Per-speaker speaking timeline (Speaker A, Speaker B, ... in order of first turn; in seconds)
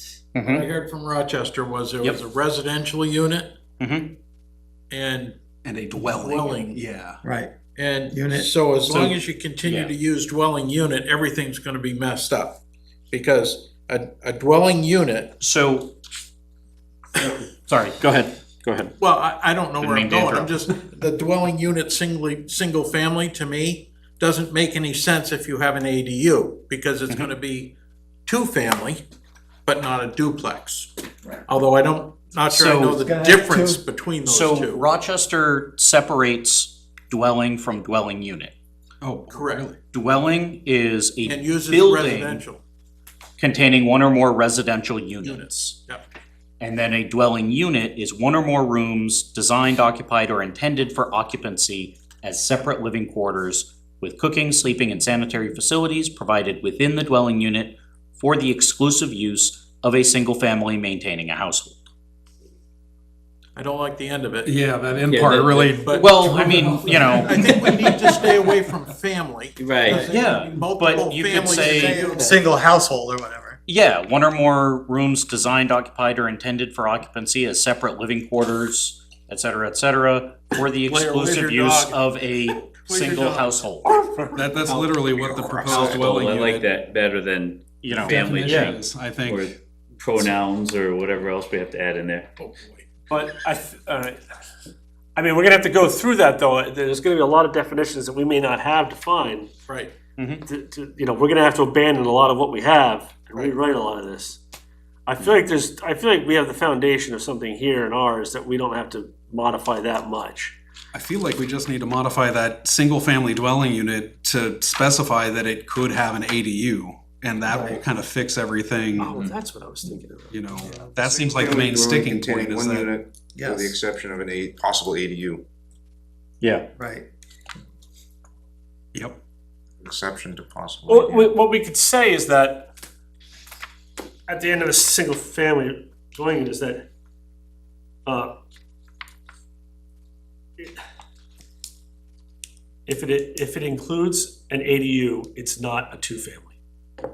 Speaker A: 0.3-0.7, 3.8-4.2, 8.8-9.9, 15.4-15.9, 17.2-18.9, 19.8-20.7, 32.5-33.0, 34.2-38.5, 39.9-42.4, 43.4-45.8, 46.6-61.9, 66.0-67.4, 70.1-72.3, 73.7-83.9, 87.8-88.5, 126.4-126.7
Speaker B: 0.4-3.6, 4.9-5.4, 6.0-6.8, 7.7-12.6, 13.1-15.3, 19.0-27.7, 28.3-29.0, 29.7-34.8, 39.3-39.8, 41.2-42.6, 45.2-46.0, 63.5-64.5, 65.8-66.1, 66.7-72.4, 80.8-83.2, 92.4-92.8, 99.7-100.0
Speaker C: 5.6-7.2, 39.0-39.7, 64.4-68.1, 84.3-86.7, 88.1-89.5, 110.9-119.2, 120.3-122.9
Speaker D: 7.2-8.5, 33.0-33.8, 71.5-73.6, 83.1-83.5, 117.5-117.8, 120.6-120.9, 123.4-123.8, 126.8-127.0
Speaker E: 65.1-65.8, 69.6-70.0, 84.7-84.9, 85.7-92.3
Speaker F: 85.2-86.1, 121.0-125.4, 129.8-131.3
Speaker G: 88.4-88.8, 93.1-94.2, 95.2-99.5, 100.5-104.4, 105.1-110.5, 119.0-120.3, 130.9-132.7, 134.3-136.9, 138.1-138.3, 142.9-146.6